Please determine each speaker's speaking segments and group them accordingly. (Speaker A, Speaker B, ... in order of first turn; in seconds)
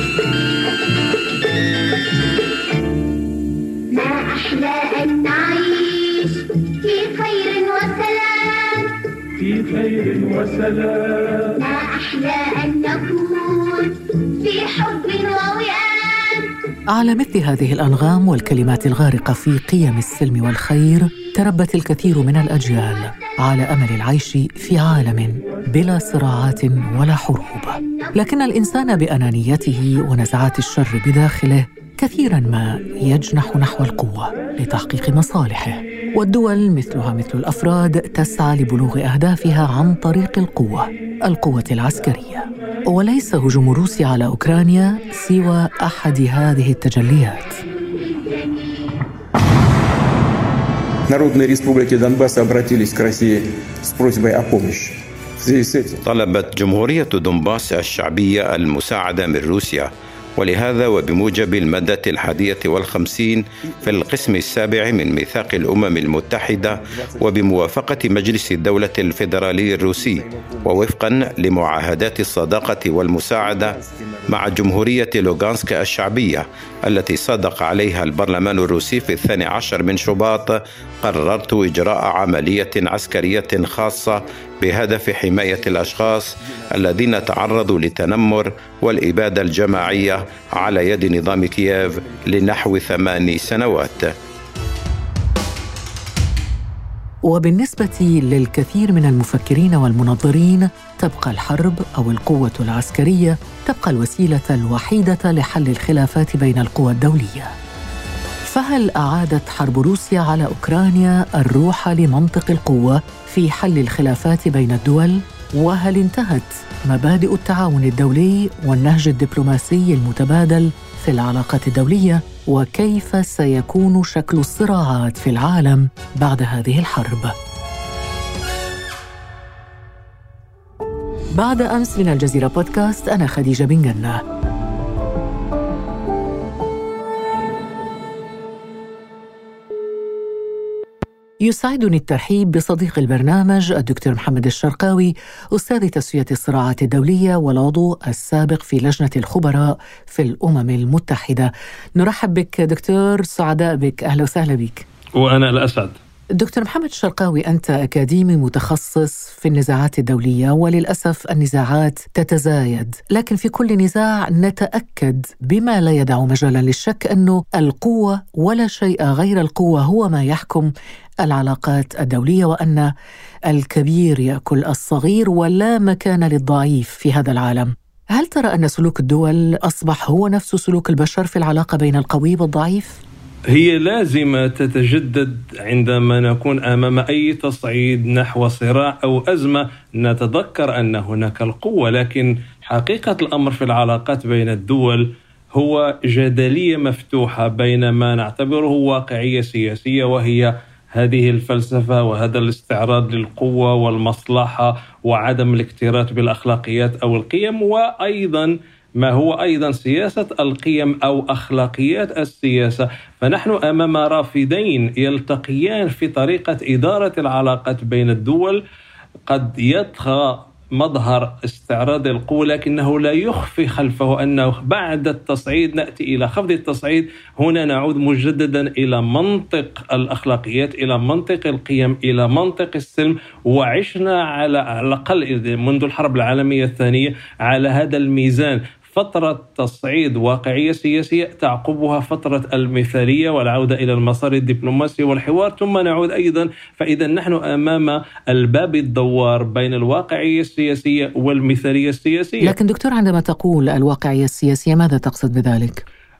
Speaker A: 3.9-9.0, 11.4-16.8, 22.5-23.3, 27.6-28.2, 47.6-49.0
Speaker B: 16.9-47.6, 97.2-107.5, 108.5-127.3, 131.3-134.2, 141.4-154.8, 156.3-172.9, 173.5-183.0, 252.4-255.8
Speaker C: 51.1-56.0, 63.8-64.1, 66.8-67.4, 70.0-70.8, 73.4-74.4, 85.8-86.5, 89.8-90.5, 91.9-93.8
Speaker D: 56.0-94.1
Speaker E: 155.2-156.0, 183.5-218.6, 219.3-252.5